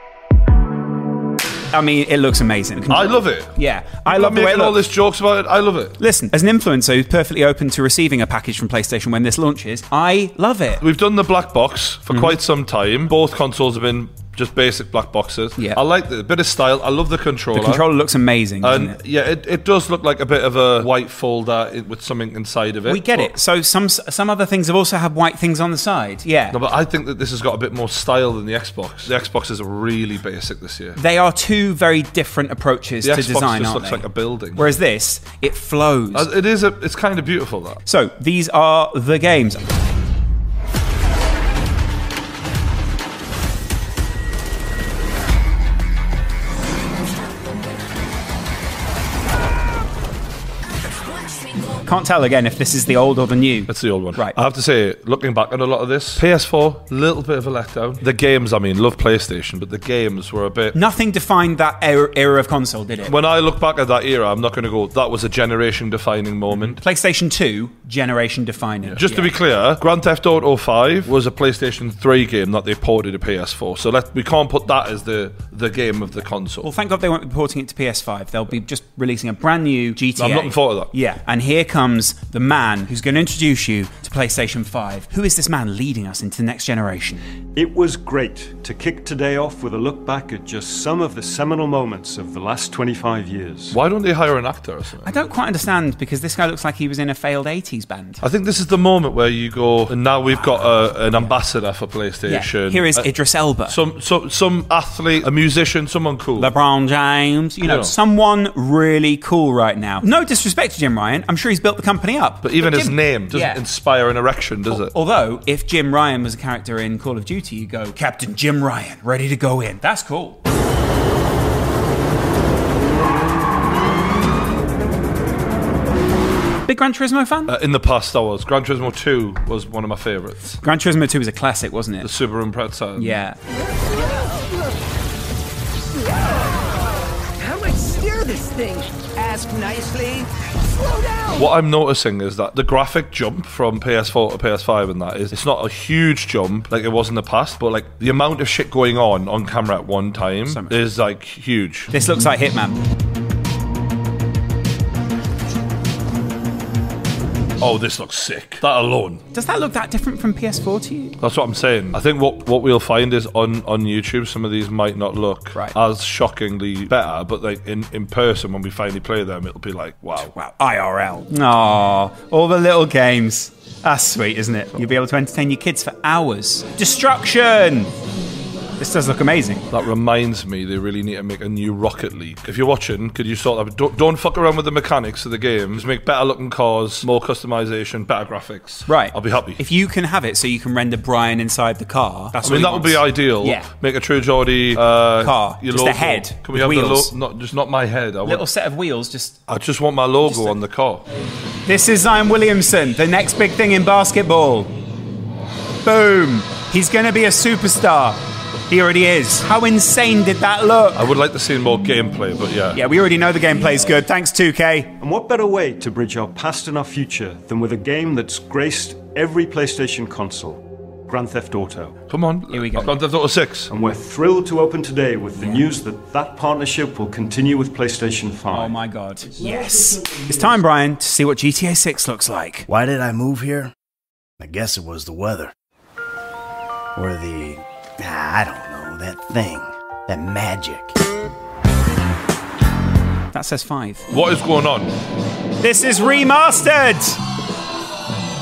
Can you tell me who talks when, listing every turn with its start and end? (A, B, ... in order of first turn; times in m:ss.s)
0:01.7-0:04.8 A
0:02.9-0:06.0 B
0:06.0-0:10.8 A
0:10.8-0:17.8 B
0:12.1-0:12.4 A
0:17.5-0:19.0 A
0:18.6-0:23.3 B
0:22.9-0:26.6 A
0:26.5-0:31.0 B
0:31.0-0:36.3 A
0:33.0-0:34.7 B
0:36.1-0:37.8 B
0:37.8-0:39.6 A
0:51.8-0:54.4 A
0:53.7-1:00.8 B
1:00.7-1:03.1 A
1:03.0-1:06.8 B
1:06.5-1:09.3 A
1:08.8-1:16.7 B
1:16.6-1:27.2 A
1:20.2-1:20.9 B
1:27.5-1:33.8 C
1:33.7-1:35.1 B
1:35.0-1:38.2 A
1:38.2-1:43.1 B
1:42.2-1:43.8 A
1:43.7-1:46.5 B
1:46.4-1:53.6 A
1:47.6-1:47.9 B
1:52.4-1:54.9 B
1:54.7-2:00.4 A
2:06.7-2:07.5 A
2:07.5-2:10.6 B
2:10.6-2:12.1 A
2:12.0-2:13.2 B
2:13.0-2:13.4 A
2:17.4-2:20.2 D
2:21.3-2:31.9 B
2:30.5-2:30.8 A
2:31.9-2:32.8 A
2:37.6-2:39.2 B
2:39.3-2:41.2 A
2:41.2-2:50.3 B
2:50.1-2:57.9 A
2:58.8-2:59.7 A
2:59.7-3:09.6 B
3:08.9-3:13.7 A
3:12.4-3:18.4 B
3:15.2-3:17.1 A
3:18.2-3:19.4 A
3:19.5-3:21.0 B
3:20.2-3:20.6 A
3:21.6-3:24.7 A
3:25.8-3:31.0 A
3:30.9-3:32.8 B
3:32.7-3:34.9 A
3:33.5-3:34.0 B
3:35.0-3:42.0 C
3:42.1-3:43.7 B
3:42.5-3:42.9 A
3:43.7-3:48.8 C
3:45.4-3:45.6 A
3:48.5-3:52.7 A
3:52.7-3:53.7 E
3:54.4-3:55.5 E
3:56.9-4:01.0 E
4:03.3-4:04.0 A
4:04.1-4:04.9 B
4:05.6-4:07.2 A